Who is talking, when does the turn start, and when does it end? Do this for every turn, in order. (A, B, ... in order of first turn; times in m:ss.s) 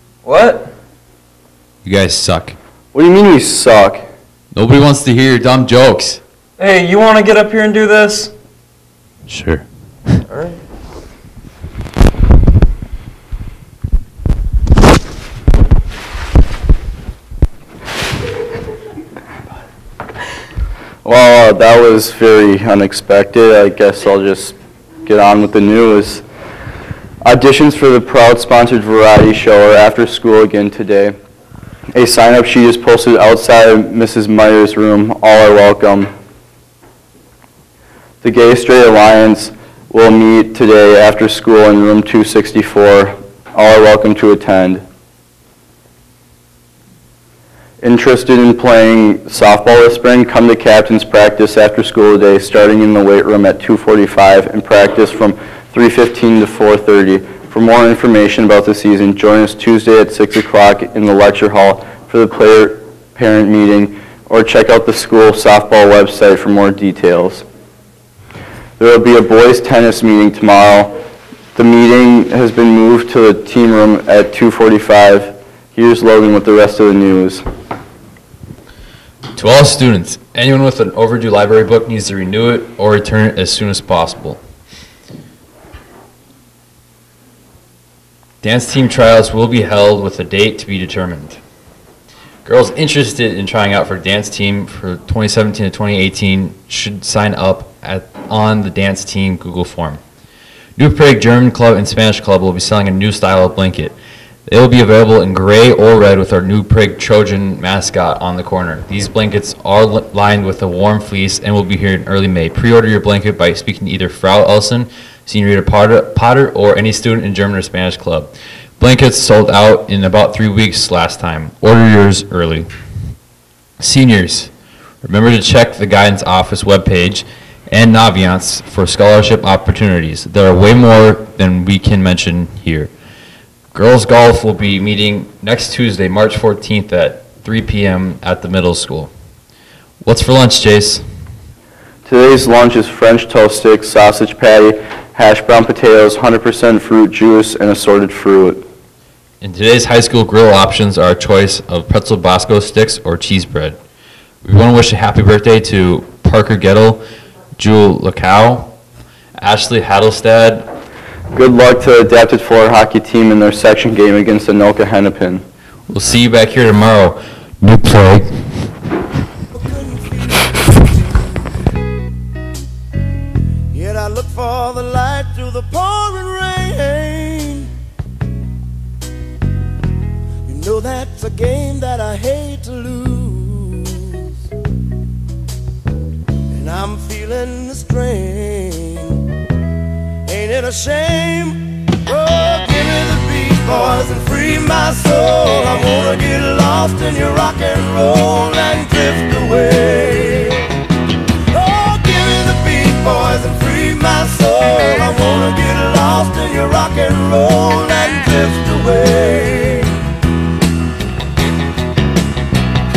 0:00.2-0:00.7 A
0:01.8-0:02.6 B
0:02.9-0:04.0 C
0:04.5-0:06.2 B
0:06.6-0:08.3 A
0:09.3-0:10.2 B
0:10.3-0:10.6 A
0:21.0-0:26.2 C
0:27.2-0:31.2 C
0:31.9-0:36.1 C
0:38.2-0:44.8 C
0:47.8-1:07.4 C
1:08.8-1:10.9 C
1:11.6-1:17.4 C
1:19.3-1:24.4 B
1:28.4-1:31.4 B
1:32.4-1:40.0 B
1:40.8-1:44.0 B
1:44.5-2:02.7 B
2:03.8-2:04.5 B
2:05.0-2:12.9 B
2:13.7-2:19.1 B
2:20.0-2:21.0 B
2:22.1-2:28.6 C
2:29.4-2:33.8 B
2:34.4-2:37.0 B
2:37.6-2:38.7 B
2:39.4-2:40.7 B
2:41.3-2:45.4 C
2:45.9-2:48.5 B
2:49.5-2:50.8 D
2:53.7-2:57.7 D
3:00.5-3:04.4 D
3:06.5-3:09.2 D
3:10.3-3:20.7 D
3:21.5-3:30.0 D